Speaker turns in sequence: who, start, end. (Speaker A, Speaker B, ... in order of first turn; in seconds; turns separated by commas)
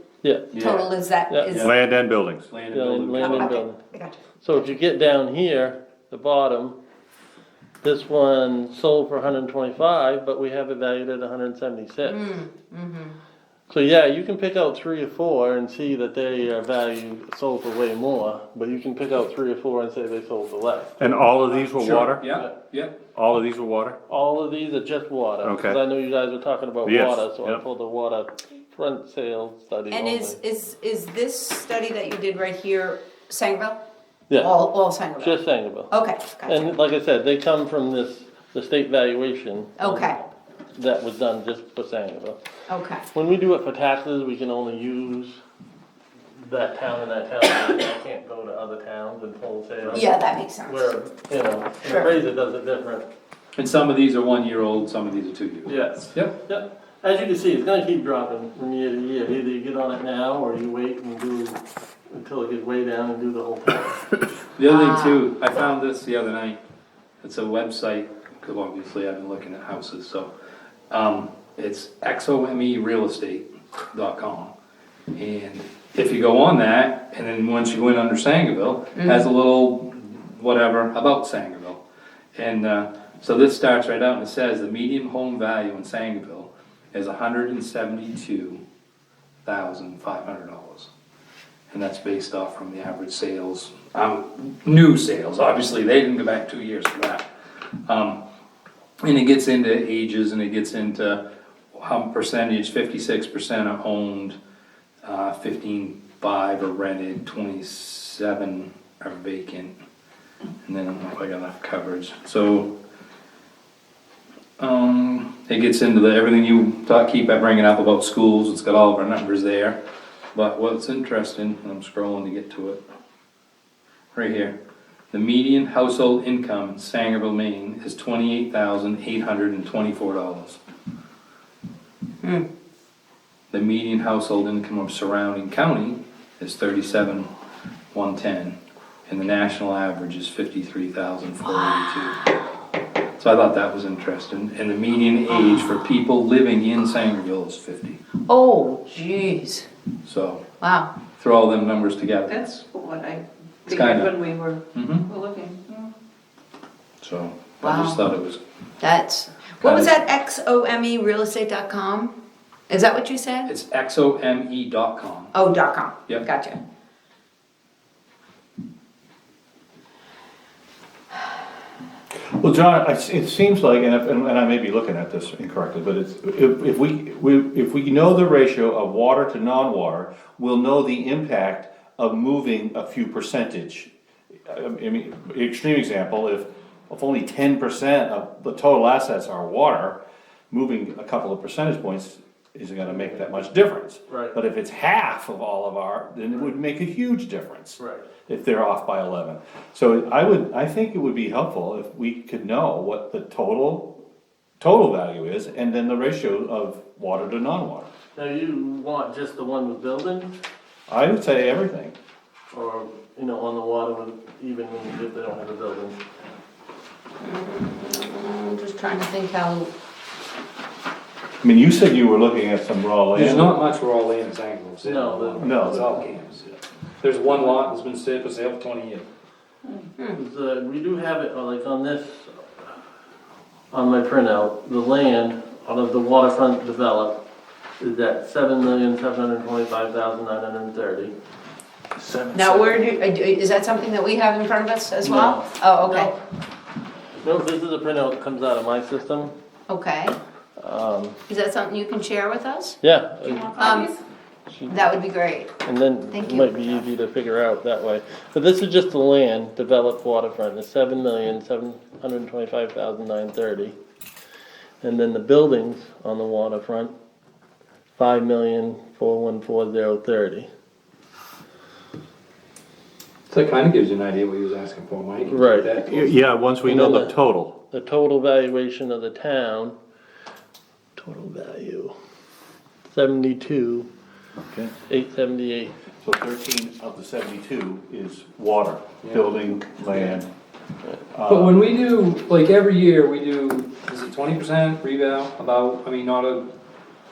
Speaker A: 0.2-0.5, Speaker B: 0.5-1.7, Speaker C: 0.5-0.9, Speaker C: 1.5-1.7, Speaker D: 1.6-2.5, Speaker C: 2.5-3.5, Speaker A: 2.7-3.8, Speaker B: 3.2-4.2, Speaker A: 4.4-6.8, Speaker A: 7.8-12.3, Speaker B: 12.0-13.2, Speaker A: 13.7-22.5, Speaker D: 21.0-22.2, Speaker C: 21.8-23.0, Speaker D: 23.1-24.0, Speaker A: 24.1-30.4, Speaker D: 25.4-25.8, Speaker D: 26.9-27.6, Speaker B: 29.9-33.8, Speaker A: 34.3-34.7, Speaker B: 34.4-35.4, Speaker A: 35.2-35.9, Speaker B: 35.9-36.7, Speaker A: 36.5-42.4, Speaker B: 39.8-40.2, Speaker B: 42.7-43.0, Speaker A: 43.1-45.4, Speaker A: 46.4-53.1, Speaker B: 49.9-50.9, Speaker C: 53.5-56.3, Speaker A: 55.6-64.0, Speaker C: 64.5-66.6, Speaker B: 64.7-65.2, Speaker C: 67.2-70.3, Speaker C: 70.9-74.5, Speaker C: 75.1-81.8, Speaker C: 82.3-88.6, Speaker C: 89.4-90.9, Speaker C: 91.7-97.3, Speaker C: 97.9-98.2, Speaker C: 99.0-101.2, Speaker C: 101.7-104.4, Speaker C: 105.0-109.7, Speaker C: 110.6-112.7, Speaker C: 114.6-119.8, Speaker C: 120.3-122.8, Speaker C: 124.1-124.5, Speaker C: 125.1-130.6, Speaker C: 133.5-137.3, Speaker C: 137.9-142.3, Speaker C: 143.2-148.0, Speaker B: 148.3-149.7, Speaker C: 150.1-150.4, Speaker B: 150.6-150.9, Speaker C: 151.2-152.6, Speaker E: 152.3-155.9, Speaker C: 153.7-155.1, Speaker C: 157.0-158.4, Speaker B: 157.6-158.0, Speaker B: 158.8-162.1, Speaker C: 159.6-160.0, Speaker B: 162.7-163.5, Speaker C: 163.5-165.4, Speaker B: 165.3-166.6, Speaker D: 172.3-183.9, Speaker D: 184.5-190.0, Speaker D: 190.5-204.0, Speaker A: 192.9-193.3, Speaker A: 194.1-194.4, Speaker A: 197.8-198.1, Speaker D: 204.6-207.9, Speaker A: 208.2-210.3, Speaker D: 210.9-211.9, Speaker A: 212.5-216.0, Speaker B: 217.2-219.7, Speaker D: 221.4-223.6, Speaker C: 223.1-229.1, Speaker A: 224.8-226.0, Speaker D: 225.4-225.9, Speaker A: 230.1-232.3, Speaker A: 233.7-237.2, Speaker A: 237.8-241.1, Speaker D: 242.0-242.8, Speaker B: 242.3-246.1, Speaker A: 245.1-246.1, Speaker A: 247.2-249.3, Speaker B: 249.7-250.2, Speaker A: 250.6-251.2, Speaker B: 251.3-252.8, Speaker A: 252.8-253.5, Speaker E: 253.3-254.0, Speaker B: 253.5-253.9, Speaker A: 254.5-254.8, Speaker B: 254.7-255.5, Speaker A: 255.6-263.8, Speaker B: 256.1-256.8, Speaker A: 264.8-266.9, Speaker A: 268.0-270.5, Speaker C: 273.3-276.2, Speaker A: 275.2-275.8, Speaker D: 275.9-277.6, Speaker A: 276.6-277.1, Speaker A: 277.7-279.8, Speaker A: 280.9-281.9, Speaker A: 282.9-283.9, Speaker A: 284.9-285.7, Speaker D: 286.0-290.3, Speaker C: 289.0-289.3, Speaker D: 291.1-291.6, Speaker C: 291.3-296.5